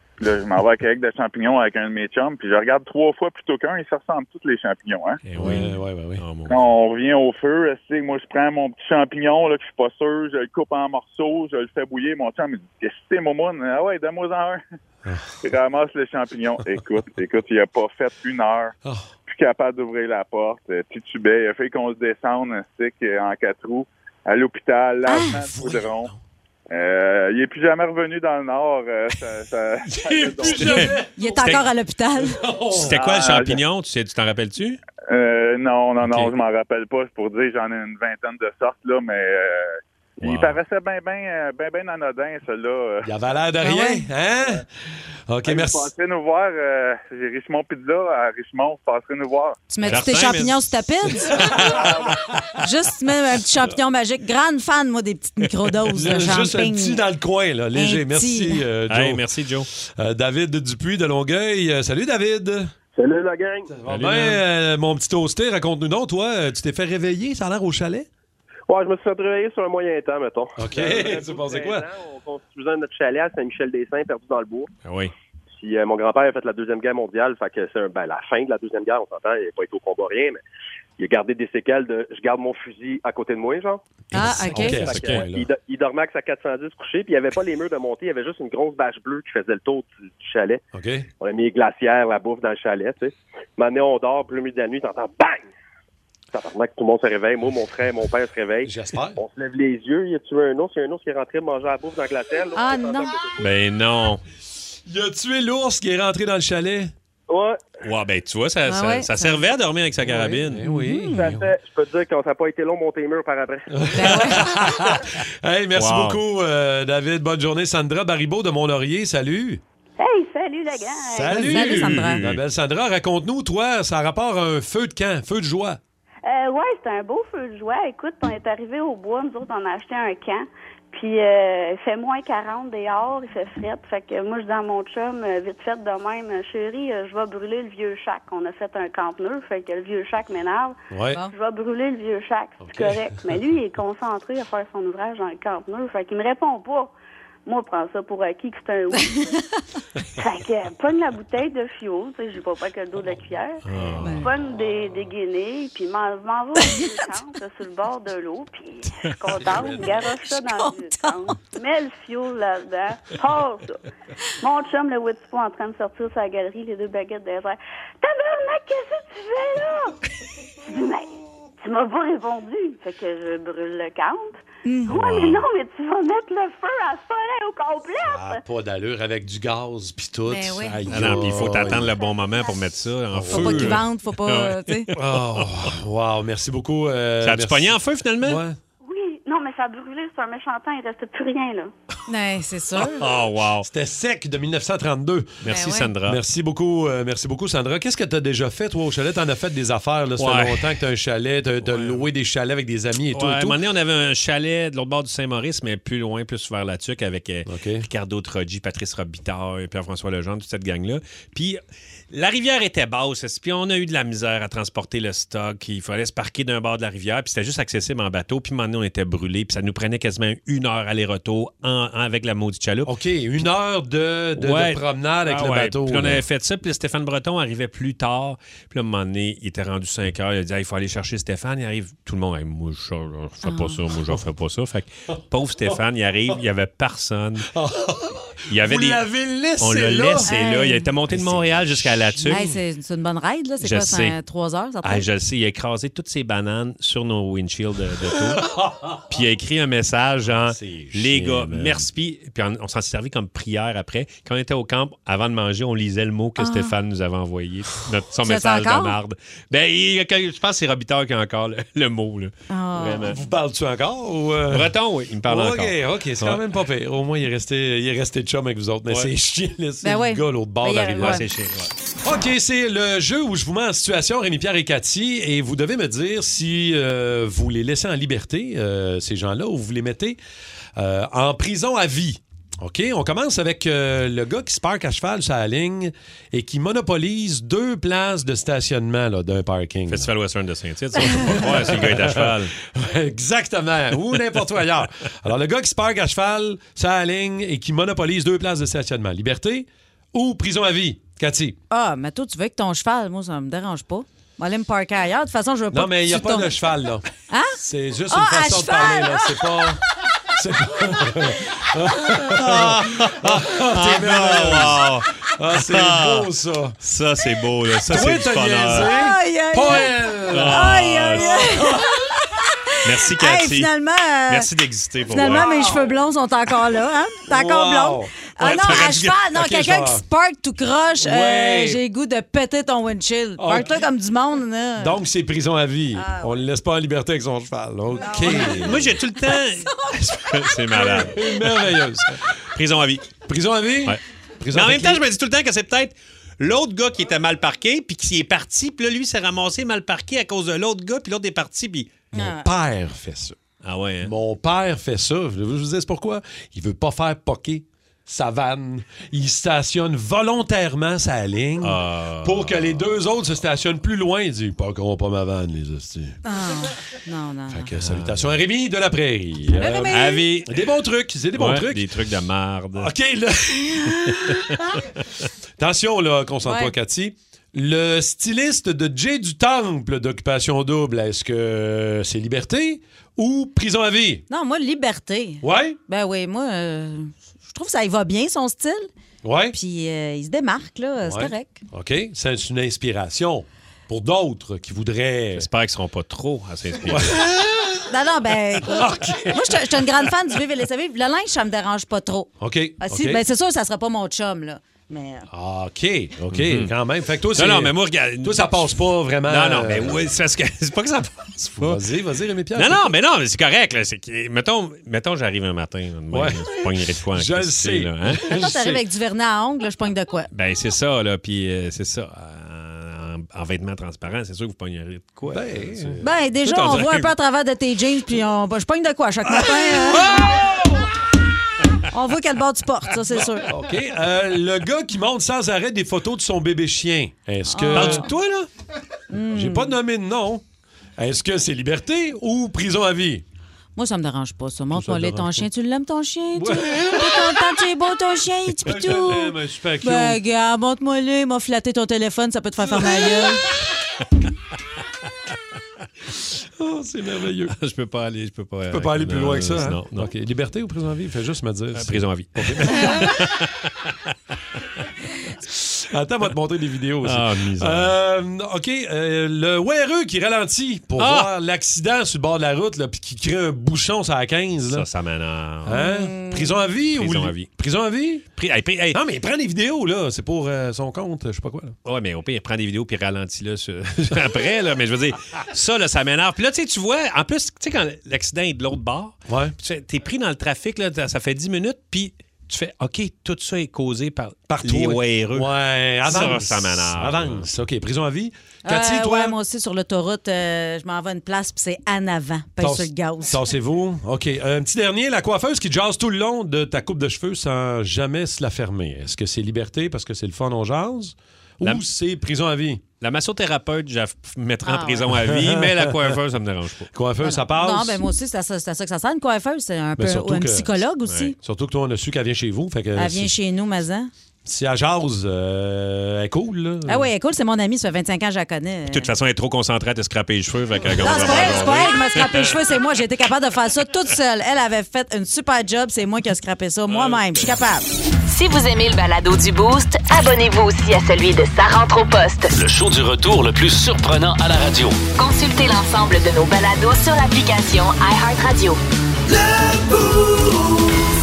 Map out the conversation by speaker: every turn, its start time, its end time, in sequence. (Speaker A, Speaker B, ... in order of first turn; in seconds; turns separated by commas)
Speaker A: 0.2-5.2, Speaker B: 5.2-6.6, Speaker C: 5.4-6.2, Speaker A: 6.5-14.6, Speaker C: 15.1-15.3, Speaker A: 15.4-18.7, Speaker C: 18.8-19.1, Speaker A: 19.3-26.1, Speaker D: 25.1-25.4, Speaker C: 25.2-26.1, Speaker A: 26.7-30.9, Speaker C: 29.9-31.5, Speaker B: 30.7-31.6, Speaker D: 31.1-32.4, Speaker C: 32.2-33.0, Speaker B: 32.7-34.8, Speaker A: 32.8-33.6, Speaker A: 35.1-43.1, Speaker B: 36.0-36.3, Speaker B: 40.2-40.6, Speaker C: 43.0-44.7, Speaker D: 43.6-44.0, Speaker C: 45.3-45.9, Speaker A: 45.5-49.6, Speaker D: 49.7-51.5, Speaker B: 49.8-50.7, Speaker C: 51.3-52.0, Speaker A: 51.6-52.1, Speaker D: 52.6-57.0, Speaker C: 55.9-59.2, Speaker D: 57.7-58.6, Speaker B: 58.9-59.7, Speaker C: 59.8-62.7, Speaker E: 62.9-63.7, Speaker C: 63.7-68.1, Speaker B: 63.9-64.4, Speaker E: 68.7-74.7, Speaker C: 70.6-71.9, Speaker B: 74.8-75.1, Speaker E: 75.6-80.4, Speaker E: 81.0-83.8, Speaker D: 84.1-84.8, Speaker C: 84.1-85.5, Speaker E: 84.5-90.6, Speaker B: 84.8-85.2, Speaker C: 90.7-91.1, Speaker E: 91.2-95.4, Speaker E: 96.3-103.5, Speaker C: 98.6-99.2, Speaker D: 102.5-103.2, Speaker B: 103.4-104.2, Speaker C: 104.8-106.9, Speaker E: 107.3-107.6, Speaker B: 107.8-110.6, Speaker D: 108.7-109.4, Speaker C: 110.0-111.5, Speaker D: 110.6-111.2, Speaker E: 111.2-114.2, Speaker C: 113.7-119.6, Speaker D: 113.9-114.4, Speaker B: 115.7-116.2, Speaker F: 120.0-121.8, Speaker C: 121.1-125.8, Speaker D: 121.5-122.2, Speaker B: 121.8-122.4, Speaker F: 126.2-140.8, Speaker C: 140.9-141.2, Speaker F: 141.3-146.9, Speaker C: 142.6-143.2, Speaker F: 147.4-149.4, Speaker D: 149.1-149.3, Speaker F: 150.2-153.6, Speaker C: 153.7-154.2, Speaker B: 153.8-154.0, Speaker D: 154.0-154.3, Speaker F: 154.2-163.8, Speaker C: 159.4-159.8, Speaker D: 160.3-161.2, Speaker F: 164.4-170.0, Speaker F: 170.6-178.4, Speaker D: 174.6-174.9, Speaker B: 174.9-175.4, Speaker C: 178.0-181.9, Speaker D: 180.3-181.1, Speaker B: 180.9-184.8, Speaker F: 181.5-182.7, Speaker C: 183.1-183.8, Speaker D: 183.3-184.9, Speaker C: 184.9-188.6, Speaker B: 187.2-188.4, Speaker F: 188.8-191.7, Speaker D: 192.1-193.0, Speaker B: 193.0-193.7, Speaker C: 193.7-195.5, Speaker B: 195.4-196.2, Speaker D: 195.5-195.9, Speaker C: 196.0-203.6, Speaker B: 200.2-200.7, Speaker B: 201.6-202.0, Speaker B: 203.1-211.6, Speaker C: 207.4-207.9, Speaker B: 212.1-222.9, Speaker C: 222.8-226.2, Speaker B: 224.4-237.5, Speaker D: 233.4-233.8, Speaker C: 237.5-240.3, Speaker B: 238.5-239.0, Speaker B: 239.6-242.4, Speaker D: 240.2-240.9, Speaker C: 241.1-242.6, Speaker D: 242.3-245.0, Speaker B: 243.6-244.2, Speaker B: 244.8-248.4, Speaker C: 248.3-249.0, Speaker B: 249.1-263.2, Speaker C: 250.4-251.9, Speaker D: 256.4-256.7, Speaker D: 258.2-258.9, Speaker D: 262.5-263.1, Speaker C: 263.0-264.7, Speaker B: 264.5-266.4, Speaker C: 265.3-271.2, Speaker D: 269.8-271.2, Speaker B: 270.9-271.7, Speaker C: 272.0-280.2, Speaker C: 280.8-290.1, Speaker B: 289.9-292.5, Speaker C: 291.1-301.6, Speaker D: 301.7-306.5, Speaker C: 305.7-307.0, Speaker D: 307.3-307.6, Speaker C: 307.6-316.8, Speaker D: 308.1-309.6, Speaker B: 312.3-316.3, Speaker B: 316.8-318.9, Speaker C: 317.9-321.9, Speaker D: 318.7-324.5, Speaker B: 320.3-321.6, Speaker B: 322.8-323.7, Speaker B: 324.3-325.5, Speaker D: 325.1-335.0, Speaker C: 325.2-325.6, Speaker C: 327.3-330.0, Speaker B: 328.4-329.5, Speaker C: 331.0-331.8, Speaker C: 333.4-333.7, Speaker C: 334.8-338.9, Speaker D: 335.9-336.4, Speaker D: 337.9-341.4, Speaker B: 338.3-341.3, Speaker C: 340.9-342.2, Speaker B: 342.5-343.2, Speaker C: 343.2-345.0, Speaker B: 344.5-351.9, Speaker C: 352.1-353.4, Speaker D: 352.1-352.5, Speaker B: 353.6-354.1, Speaker C: 354.0-366.2, Speaker B: 361.6-362.9, Speaker D: 366.2-367.7, Speaker C: 367.5-371.9, Speaker D: 369.6-370.2, Speaker B: 369.9-370.5, Speaker B: 371.3-372.9, Speaker C: 372.7-374.6, Speaker D: 373.8-374.0, Speaker C: 375.6-384.2, Speaker D: 376.4-376.7, Speaker D: 384.3-388.9, Speaker C: 385.4-385.8, Speaker C: 389.2-389.6, Speaker D: 389.5-391.6, Speaker C: 391.0-395.5, Speaker B: 395.4-397.2, Speaker C: 396.9-397.8, Speaker D: 397.9-405.3, Speaker C: 398.6-399.7, Speaker C: 402.4-403.2, Speaker C: 405.3-410.0, Speaker B: 406.3-406.7, Speaker B: 407.3-408.6, Speaker B: 409.3-411.8, Speaker C: 411.6-412.9, Speaker B: 412.5-418.2, Speaker C: 416.1-418.8, Speaker D: 418.3-420.3, Speaker B: 420.3-427.1, Speaker C: 425.3-426.1, Speaker D: 426.0-430.3, Speaker C: 429.3-430.9, Speaker D: 431.9-433.5, Speaker C: 433.4-438.1, Speaker D: 437.5-438.1, Speaker B: 437.7-438.5, Speaker D: 439.1-439.7, Speaker C: 439.1-440.4, Speaker C: 441.0-443.2, Speaker D: 443.8-453.4, Speaker C: 444.7-445.4, Speaker C: 446.4-447.4, Speaker C: 448.6-450.2, Speaker C: 452.8-453.1, Speaker C: 456.6-457.5, Speaker B: 457.5-460.1, Speaker C: 458.7-463.2, Speaker B: 461.7-463.9, Speaker C: 465.4-474.9, Speaker B: 467.0-467.9, Speaker B: 471.0-471.3, Speaker B: 474.7-475.9, Speaker C: 475.6-478.2, Speaker D: 475.7-476.6, Speaker B: 476.9-477.5, Speaker B: 478.4-479.0, Speaker C: 478.9-481.8, Speaker B: 481.8-495.5, Speaker C: 489.3-489.5, Speaker C: 494.5-499.4, Speaker B: 496.0-497.5, Speaker D: 498.6-503.4, Speaker C: 502.6-512.8, Speaker B: 513.0-516.9, Speaker D: 514.6-515.0, Speaker C: 515.1-516.2, Speaker C: 516.9-518.0, Speaker D: 517.2-521.4, Speaker C: 520.0-520.8, Speaker B: 521.1-521.3, Speaker C: 521.4-523.3, Speaker D: 523.0-524.1, Speaker C: 524.4-527.1, Speaker D: 526.9-529.1, Speaker B: 528.9-532.5, Speaker D: 531.0-537.9, Speaker B: 536.9-537.5, Speaker G: 538.3-542.5, Speaker H: 542.5-545.0, Speaker G: 545.1-548.8